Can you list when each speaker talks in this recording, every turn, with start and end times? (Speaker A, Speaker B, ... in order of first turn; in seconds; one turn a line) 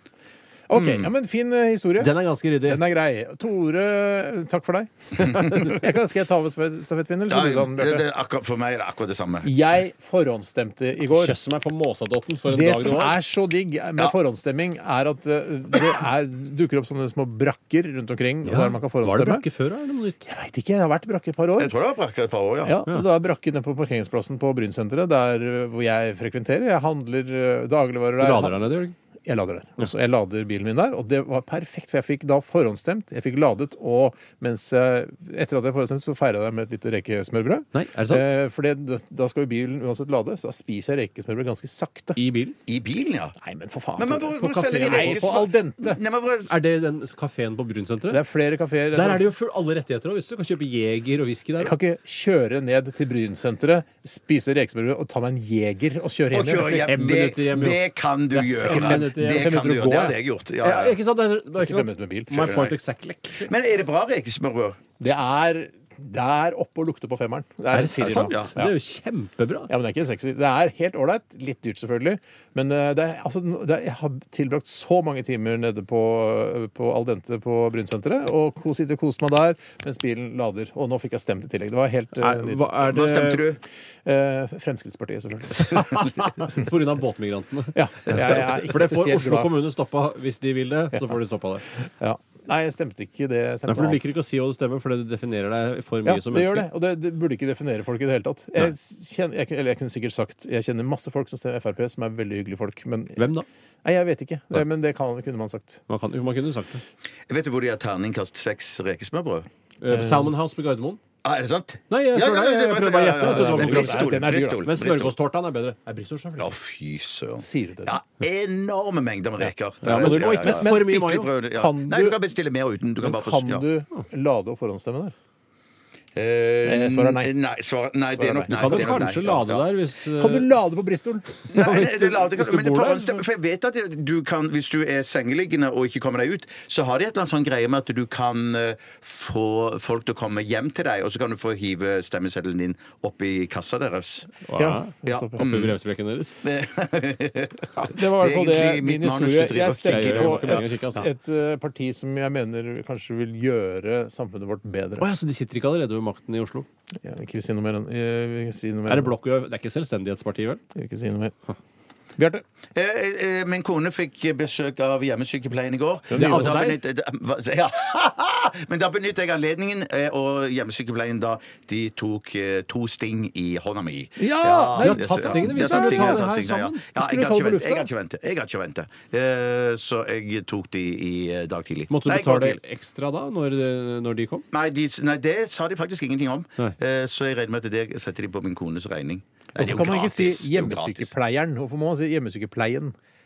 Speaker A: 0.7-2.1
Speaker B: 0.7-1.1
Speaker C: 2.0-2.9
Speaker A: 2.7-8.1
Speaker B: 5.2-5.7
Speaker B: 7.3-9.6
Speaker A: 9.4-11.3
Speaker C: 11.0-13.2
Speaker A: 12.5-19.4
Speaker C: 18.4-20.2
Speaker A: 20.2-21.7
Speaker B: 21.6-22.8
Speaker A: 22.6-28.6
Speaker C: 28.2-28.9
Speaker A: 29.2-42.2
Speaker C: 37.7-38.3
Speaker C: 42.1-42.5
Speaker B: 42.6-43.4
Speaker A: 43.4-46.0
Speaker B: 44.0-46.5
Speaker C: 44.6-45.2
Speaker C: 46.5-48.2
Speaker A: 48.1-49.3
Speaker C: 48.9-51.7
Speaker A: 51.6-57.2
Speaker B: 56.3-61.0
Speaker C: 56.9-63.5
Speaker A: 58.6-60.1
Speaker A: 61.6-62.5
Speaker B: 62.3-62.8
Speaker B: 63.4-64.8
Speaker A: 65.0-68.7
Speaker C: 67.7-69.7
Speaker B: 68.0-68.5
Speaker A: 69.7-82.7
Speaker C: 82.2-83.5
Speaker B: 82.8-83.6
Speaker A: 84.0-86.6
Speaker C: 85.6-91.6
Speaker A: 87.7-89.5
Speaker A: 92.0-94.1
Speaker C: 93.7-96.7
Speaker A: 96.0-103.3
Speaker C: 103.2-103.5
Speaker A: 103.8-105.8
Speaker C: 105.9-106.8
Speaker B: 107.3-109.5
Speaker C: 109.8-111.0
Speaker A: 109.9-110.3
Speaker B: 111.2-115.1
Speaker C: 111.9-116.5
Speaker A: 113.2-114.6
Speaker B: 116.4-123.7
Speaker A: 117.4-118.0
Speaker A: 119.4-122.2
Speaker C: 119.8-121.3
Speaker A: 123.0-125.1
Speaker B: 126.2-129.6
Speaker A: 126.6-127.3
Speaker A: 128.2-129.1
Speaker C: 128.5-130.5
Speaker A: 130.2-131.3
Speaker B: 131.5-144.4
Speaker C: 131.5-133.2
Speaker C: 144.4-146.4
Speaker A: 144.6-145.4
Speaker B: 145.1-145.8
Speaker B: 146.4-150.9
Speaker A: 147.8-155.1
Speaker C: 149.8-151.1
Speaker C: 155.0-156.7
Speaker A: 157.0-159.1
Speaker C: 158.9-160.6
Speaker A: 160.7-161.3
Speaker A: 162.2-162.4
Speaker B: 162.7-182.6
Speaker A: 166.1-166.8
Speaker C: 166.1-166.8
Speaker A: 174.2-176.3
Speaker C: 174.8-176.8
Speaker A: 176.9-177.9
Speaker C: 181.9-184.4
Speaker B: 184.5-191.1
Speaker A: 189.6-192.9